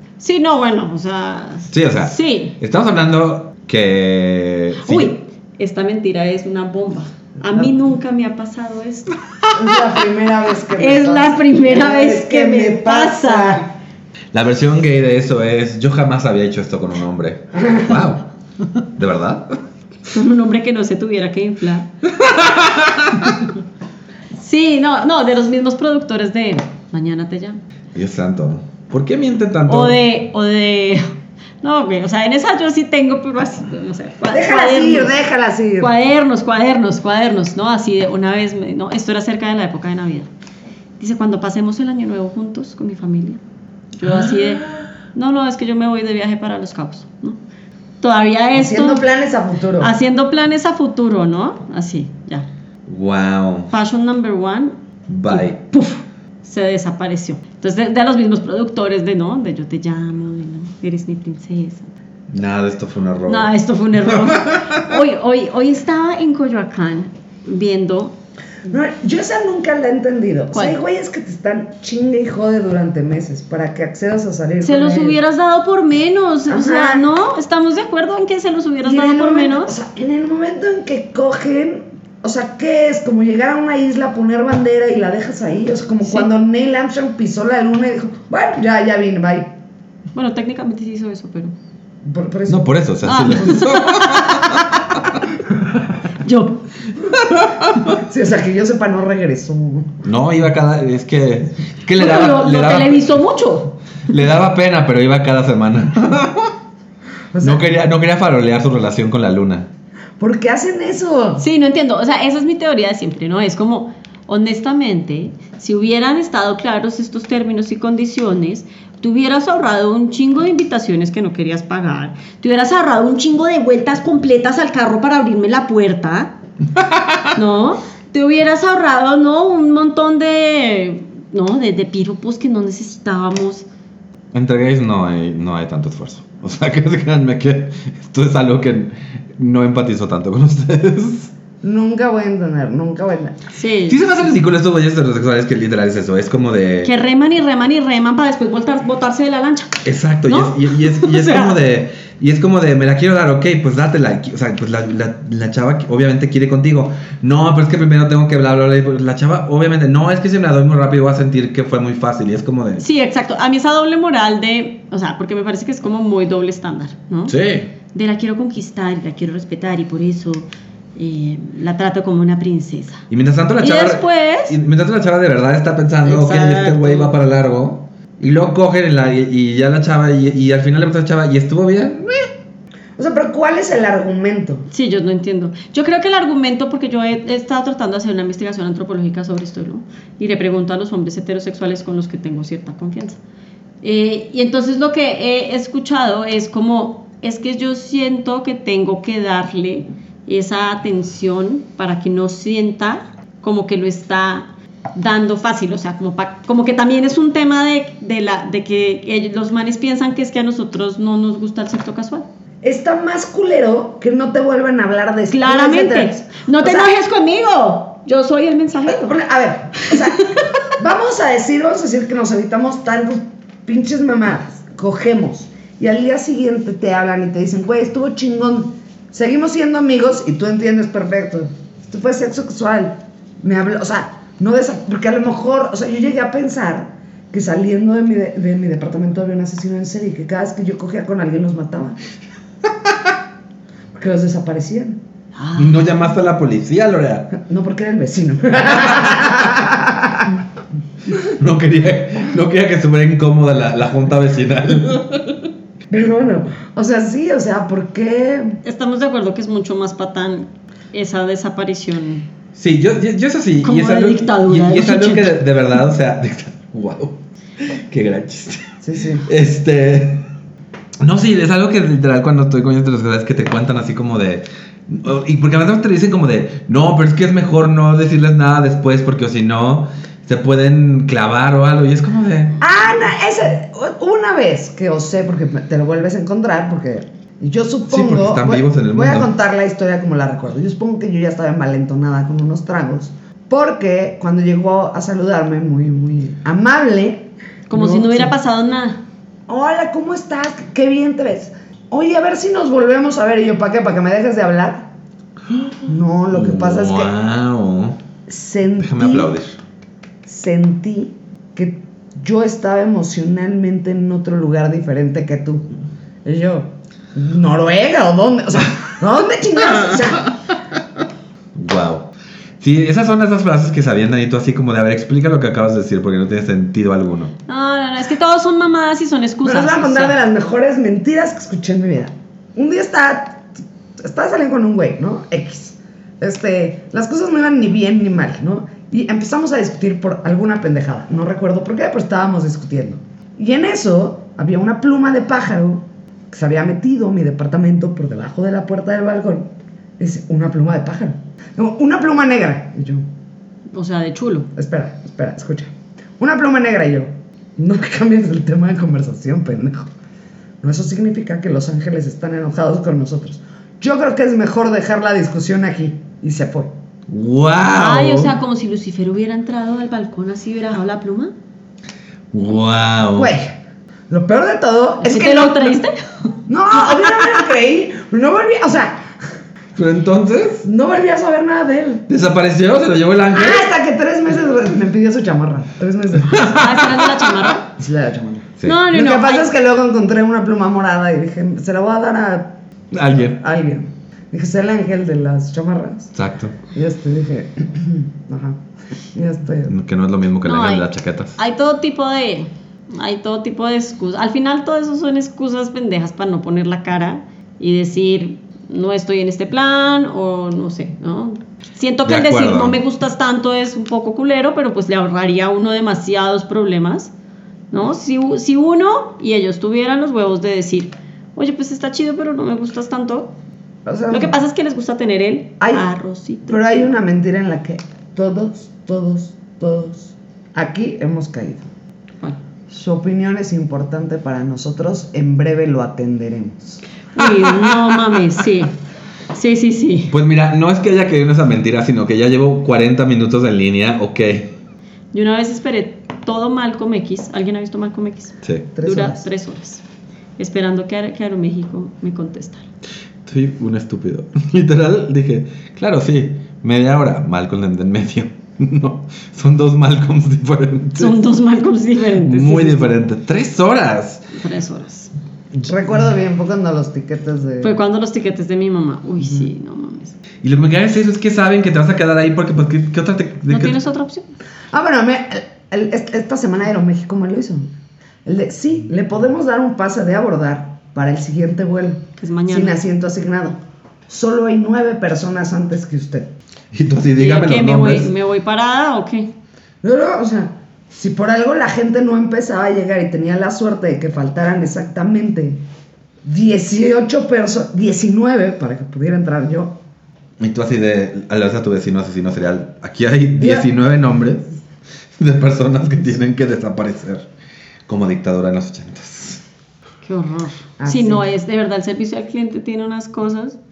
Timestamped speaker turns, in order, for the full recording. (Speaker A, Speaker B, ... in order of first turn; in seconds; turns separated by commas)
Speaker A: 0.2-2.6, Speaker B: 1.7-5.2, Speaker A: 4.8-9.2, Speaker C: 9.5-13.7, Speaker A: 10.8-13.7, Speaker B: 14.3-18.3, Speaker C: 17.6-18.0, Speaker B: 18.9-19.6, Speaker A: 20.1-21.9, Speaker B: 22.1-23.4, Speaker A: 24.4-27.6, Speaker B: 27.9-30.0, Speaker A: 29.7-31.1, Speaker A: 31.6-35.1, Speaker C: 34.3-35.9, Speaker A: 35.8-40.3, Speaker A: 41.0-43.4, Speaker A: 44.0-47.4, Speaker B: 44.0-44.8, Speaker A: 48.0-49.1, Speaker C: 48.5-49.9, Speaker A: 49.8-52.5, Speaker B: 52.9-53.7, Speaker A: 53.7-54.8, Speaker B: 55.1-55.6, Speaker A: 55.3-61.9, Speaker B: 62.3-63.5, Speaker A: 63.3-68.2, Speaker B: 64.1-64.9, Speaker C: 68.7-75.2, Speaker A: 74.6-79.7, Speaker C: 76.5-77.1, Speaker C: 78.8-89.5, Speaker A: 90.1-91.5, Speaker C: 92.0-92.7, Speaker B: 92.5-95.2, Speaker A: 93.0-94.7, Speaker A: 96.2-96.7, Speaker B: 97.2-98.0, Speaker C: 97.9-100.0, Speaker B: 100.0-103.1, Speaker A: 102.0-103.8, Speaker B: 104.1-106.5, Speaker C: 107.3-107.7, Speaker B: 107.4-109.7, Speaker C: 110.2-111.4, Speaker A: 111.4-126.3, Speaker B: 126.8-127.3, Speaker A: 127.3-133.7, Speaker B: 134.3-141.3, Speaker C: 141.6-143.4, Speaker A: 143.5-144.0, Speaker B: 143.9-146.9, Speaker A: 146.8-151.6, Speaker B: 149.8-162.8, Speaker A: 162.8-167.4, Speaker B: 167.3-167.7, Speaker A: 167.9-173.1, Speaker B: 173.1-182.3, Speaker A: 173.6-174.6, Speaker A: 176.0-177.1, Speaker C: 183.0-184.7, Speaker A: 184.7-193.2, Speaker A: 193.8-212.3, Speaker C: 212.6-216.9, Speaker A: 215.3-219.2, Speaker C: 218.9-242.0, Speaker A: 219.9-220.4, Speaker C: 243.9-245.0, Speaker A: 245.4-245.9, Speaker B: 245.6-247.3, Speaker C: 247.3-250.4, Speaker B: 251.3-255.5, Speaker C: 255.9-258.6, Speaker A: 258.6-262.3, Speaker B: 262.5-268.7, Speaker A: 263.6-265.4, Speaker C: 268.8-269.3, Speaker B: 269.2-270.3, Speaker B: 271.0-282.6, Speaker C: 282.6-298.3, Speaker B: 287.9-289.3, Speaker A: 297.7-299.0, Speaker C: 299.5-304.9, Speaker B: 305.5-305.8, Speaker C: 305.9-307.1, Speaker B: 306.3-308.0, Speaker C: 308.3-309.3, Speaker B: 308.8-309.6, Speaker C: 310.3-315.7, Speaker C: 316.2-320.3, Speaker B: 321.6-327.3, Speaker A: 327.5-330.2, Speaker C: 329.4-333.4, Speaker C: 334.0-349.5, Speaker C: 350.0-353.1, Speaker A: 353.7-354.5, Speaker C: 354.6-359.9, Speaker C: 360.6-366.7, Speaker B: 367.1-368.4, Speaker A: 367.8-371.3, Speaker B: 372.3-373.3, Speaker C: 373.1-373.5, Speaker C: 374.1-375.8, Speaker A: 375.0-377.3, Speaker C: 376.5-379.0, Speaker B: 379.8-380.7, Speaker C: 380.6-382.1, Speaker B: 382.1-383.7, Speaker C: 383.3-386.8, Speaker B: 386.3-386.9, Speaker A: 386.4-387.7, Speaker C: 387.8-396.1, Speaker A: 388.6-389.5, Speaker B: 392.9-393.4, Speaker B: 396.1-396.6, Speaker C: 396.7-398.6, Speaker C: 399.1-399.7, Speaker B: 399.7-401.4, Speaker A: 400.4-417.1, Speaker B: 412.1-412.8, Speaker A: 417.7-423.3, Speaker C: 423.9-424.4, Speaker A: 424.1-426.9, Speaker C: 426.5-431.7, Speaker C: 432.7-436.8, Speaker A: 437.1-438.8, Speaker B: 437.2-438.1, Speaker A: 439.3-440.1, Speaker B: 440.1-444.6, Speaker A: 445.1-449.8, Speaker B: 448.4-448.7, Speaker C: 448.8-449.3, Speaker A: 450.4-452.6, Speaker B: 453.2-461.2, Speaker A: 461.0-463.0, Speaker B: 462.2-464.3, Speaker A: 464.3-465.1, Speaker C: 465.6-467.8, Speaker A: 467.6-470.1, Speaker B: 470.4-473.8, Speaker A: 473.5-474.3, Speaker C: 474.7-477.7, Speaker C: 478.3-483.6, Speaker A: 482.2-482.8, Speaker C: 484.1-486.3, Speaker B: 486.7-488.1, Speaker A: 487.2-489.3, Speaker C: 489.8-495.6, Speaker C: 496.2-499.8, Speaker B: 500.4-504.4, Speaker C: 503.4-503.7, Speaker B: 505.2-507.3, Speaker B: 507.9-509.4, Speaker A: 510.0-513.6, Speaker C: 510.8-511.2